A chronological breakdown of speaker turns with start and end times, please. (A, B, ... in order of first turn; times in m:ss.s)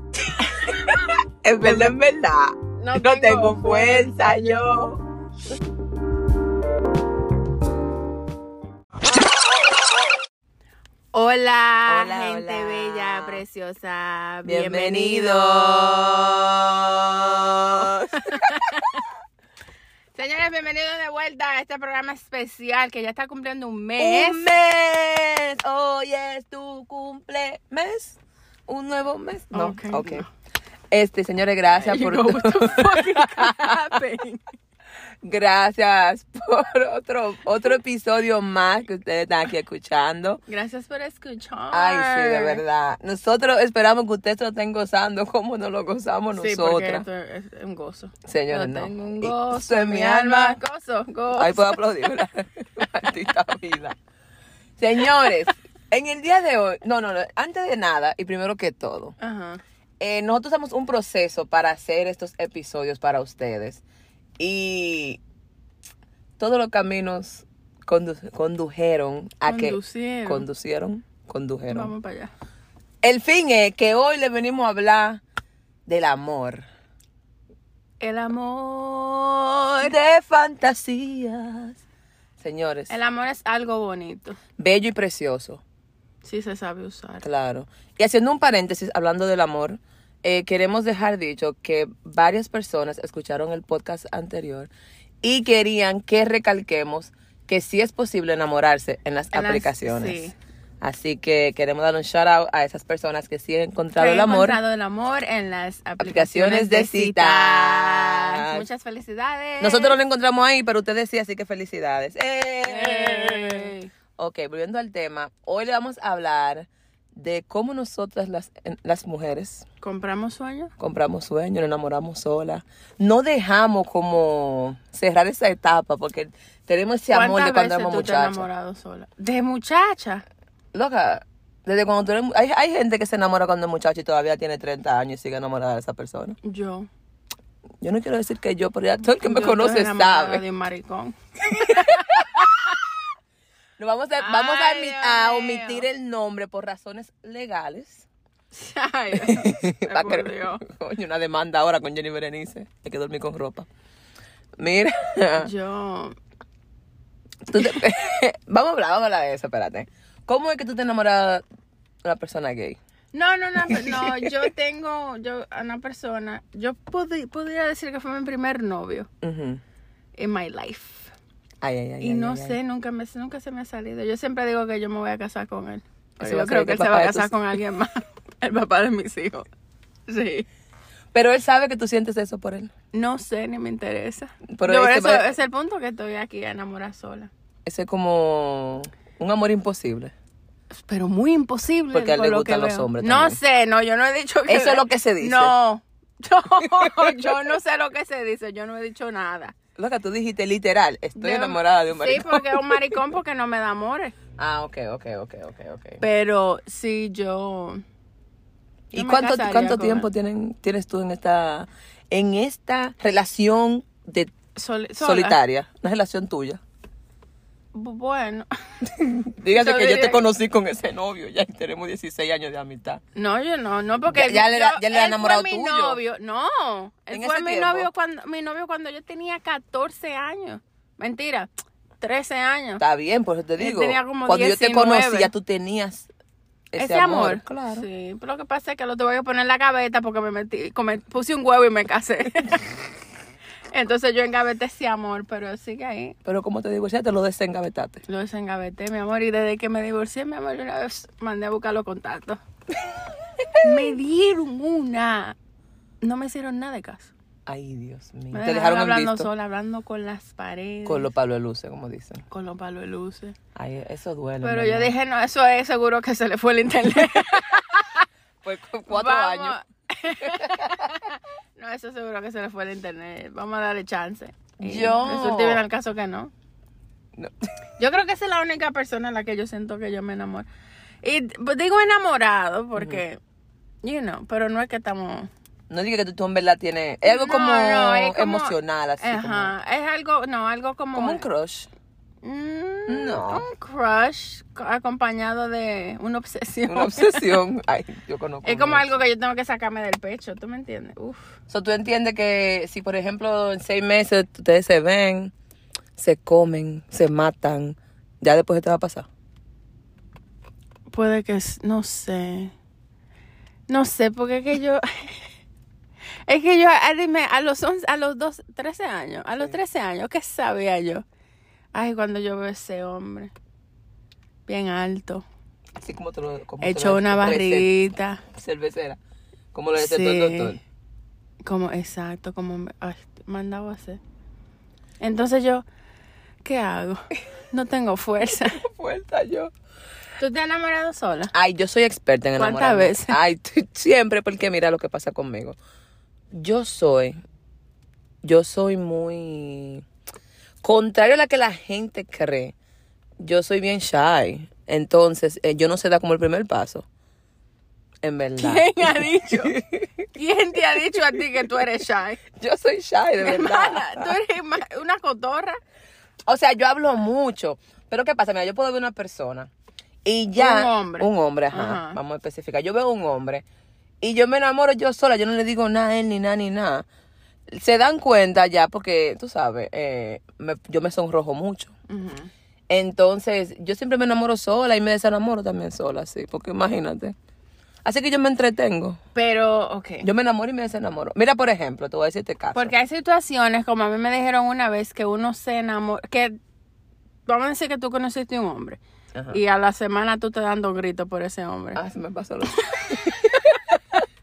0:00.4-0:05.0 A
0:01.6-0:01.9 B
0:02.8-0:04.3 B
0:11.1-0:16.1 B
0:11.9-0:13.4 A
0:14.4-0:18.8 A
0:17.8-0:19.0 B
0:20.2-0:24.5 B
0:24.0-0:30.2 A
0:29.5-0:30.3 B
0:30.9-0:34.0 A
0:31.8-0:34.4 B
0:35.2-0:40.4 A
0:40.5-0:42.6 B
0:41.7-0:47.1 A
0:46.4-0:51.8 B
0:48.2-0:50.6 A
0:51.4-0:54.0 A
0:54.8-0:59.2 A
0:59.2-0:59.6 B
1:00.0-1:03.8 A
1:04.4-1:05.2 A
1:06.4-1:11.9 A
1:09.5-1:10.5 B
1:11.7-1:12.3 B
1:13.0-1:15.2 A
1:15.9-1:16.6 A
1:18.0-1:19.9 B
1:19.8-1:21.8 A
1:22.4-1:22.9 A
1:22.9-1:24.4 B
1:24.6-1:25.6 A
1:26.2-1:27.2 B
1:27.2-1:34.7 A
1:35.2-1:40.3 A
1:39.3-1:40.4 B
1:40.8-1:44.6 A
1:44.0-1:50.0 B
1:46.0-1:48.7 A
1:49.6-1:59.6 A
1:52.6-1:53.9 B
1:59.8-2:00.7 B
2:00.8-2:08.5 A
2:07.1-2:10.2 B
2:10.7-2:16.4 A
2:16.4-2:16.9 B
2:17.8-2:20.4 A
2:19.2-2:22.8 B
2:21.5-2:22.5 A
2:23.8-2:28.1 A
2:24.2-2:25.9 B
2:28.5-2:30.6 B
2:29.1-2:33.7 A
2:34.6-2:35.5 A
2:35.4-2:36.2 B
2:37.5-2:41.4 A
2:42.0-2:42.8 A
2:43.1-2:49.1 B
2:43.6-2:44.5 A
2:49.2-2:49.6 A
2:50.2-2:51.1 B
2:51.6-2:52.6 A
2:52.0-2:59.5 B
2:56.2-2:57.3 A
3:00.1-3:00.5 B
3:01.1-3:02.7 A
3:02.9-3:07.3 B
3:04.6-3:05.3 A
3:07.7-3:10.1 A
3:10.7-3:19.6 B
3:11.9-3:13.4 A
3:14.5-3:15.5 A
3:16.6-3:17.4 A
3:19.8-3:23.0 A
3:21.2-3:24.2 B
3:24.4-3:26.0 A
3:26.0-3:27.8 B
3:28.9-3:34.4 A
3:29.0-3:30.1 B
3:34.5-3:35.4 B
3:35.0-3:36.6 A
3:37.7-3:38.5 B
3:38.8-3:43.0 A
3:39.5-3:40.2 B
3:43.2-3:51.5 B
3:44.1-3:46.0 A
3:47.1-3:47.9 A
3:52.0-3:52.8 B
3:52.8-3:56.1 A
3:53.6-3:55.3 B
3:56.7-3:57.9 A
3:56.8-4:02.7 B
4:03.7-4:06.2 B
4:06.2-4:08.0 A
4:08.1-4:12.4 B
4:13.4-4:13.7 A
4:13.6-4:15.4 B
4:16.0-4:17.1 B
4:17.5-4:19.3 A
4:18.3-4:21.1 B
4:20.8-4:22.2 A
4:22.3-4:23.4 B
4:23.6-4:24.9 A
4:24.4-4:28.0 B
4:28.4-4:29.6 A
4:28.9-4:36.3 B
4:30.2-4:31.0 A
4:34.6-4:35.6 A
4:37.8-4:40.5 B
4:41.0-4:43.2 B
4:42.8-4:43.0 A
4:43.8-4:45.3 B
4:45.7-4:49.5 A
4:47.0-4:51.2 B
4:51.0-4:51.7 A
4:52.2-4:57.4 B
4:52.9-4:53.5 A
4:56.7-4:58.9 A
4:58.4-5:01.3 B
5:01.5-5:05.3 A
5:06.0-5:09.1 A
5:10.9-5:12.5 B
5:13.7-5:15.3 B
5:16.3-5:21.0 B
5:21.7-5:23.3 B
5:24.5-5:25.2 B
5:25.8-5:27.7 A
5:26.6-5:28.2 B
5:28.3-5:29.0 A
5:29.5-5:30.6 A
5:29.8-5:30.6 B
5:31.4-5:34.0 B
5:35.0-5:35.6 B
5:36.4-5:38.6 B
5:38.4-5:39.5 A
5:40.2-5:41.3 B
5:41.3-5:45.6 A
5:42.4-5:43.2 B
5:46.3-5:47.2 A
5:48.2-5:49.8 A
5:50.6-5:52.5 A
5:53.2-5:56.9 A
5:58.0-6:00.0 A
5:58.4-5:59.6 B
6:00.2-6:02.2 B
6:02.3-6:04.2 A
6:03.2-6:05.6 B
6:06.3-6:09.5 A
6:10.0-6:13.4 A
6:10.4-6:12.0 B
6:14.0-6:16.8 A
6:17.5-6:21.7 A
6:21.9-6:22.3 B
6:22.7-6:27.2 A
6:27.8-6:29.0 A
6:29.2-6:30.1 B
6:30.0-6:32.7 A
6:32.6-6:36.4 B
6:37.3-6:41.8 B
6:39.1-6:39.4 A
6:41.8-6:44.0 A